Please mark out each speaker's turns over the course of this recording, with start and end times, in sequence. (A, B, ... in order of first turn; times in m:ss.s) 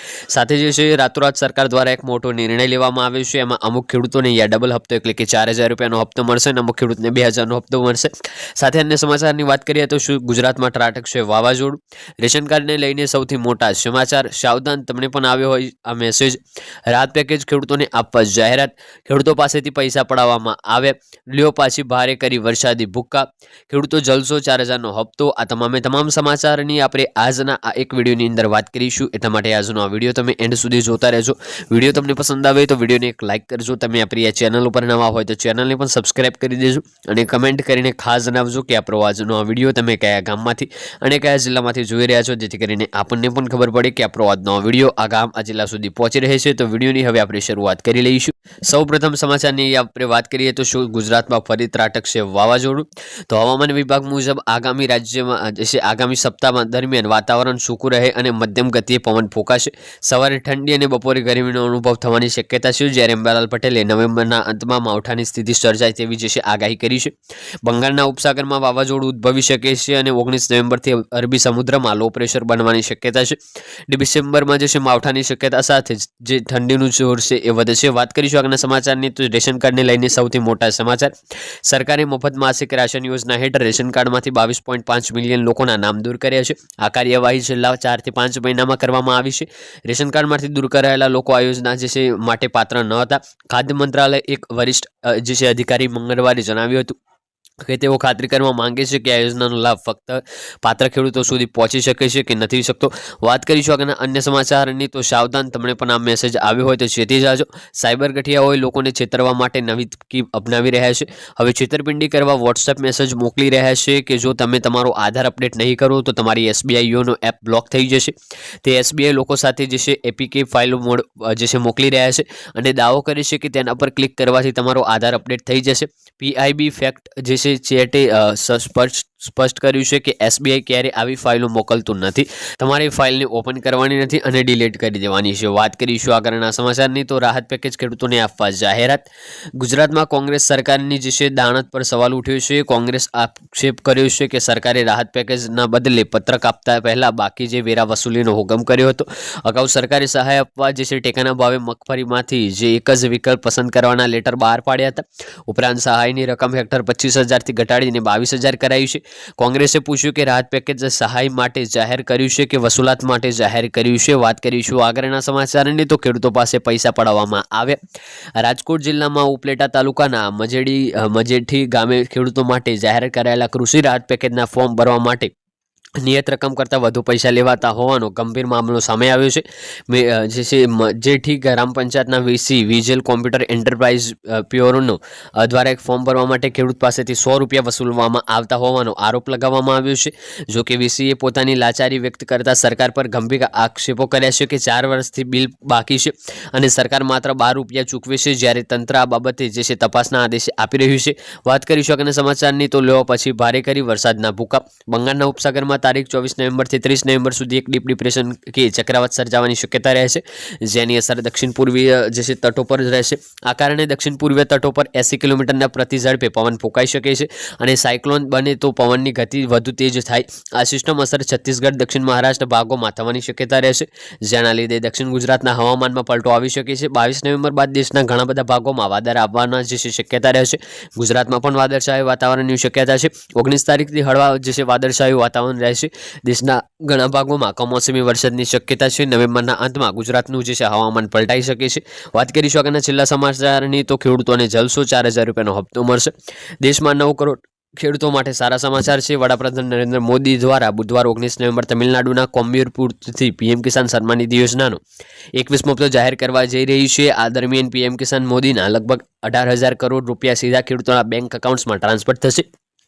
0:00.3-1:21.1 A
1:21.6-1:37.0 A
1:37.6-2:19.0 A
2:19.6-2:47.8 A
2:48.4-2:55.3 A
2:56.0-4:14.8 A
4:15.4-4:22.4 A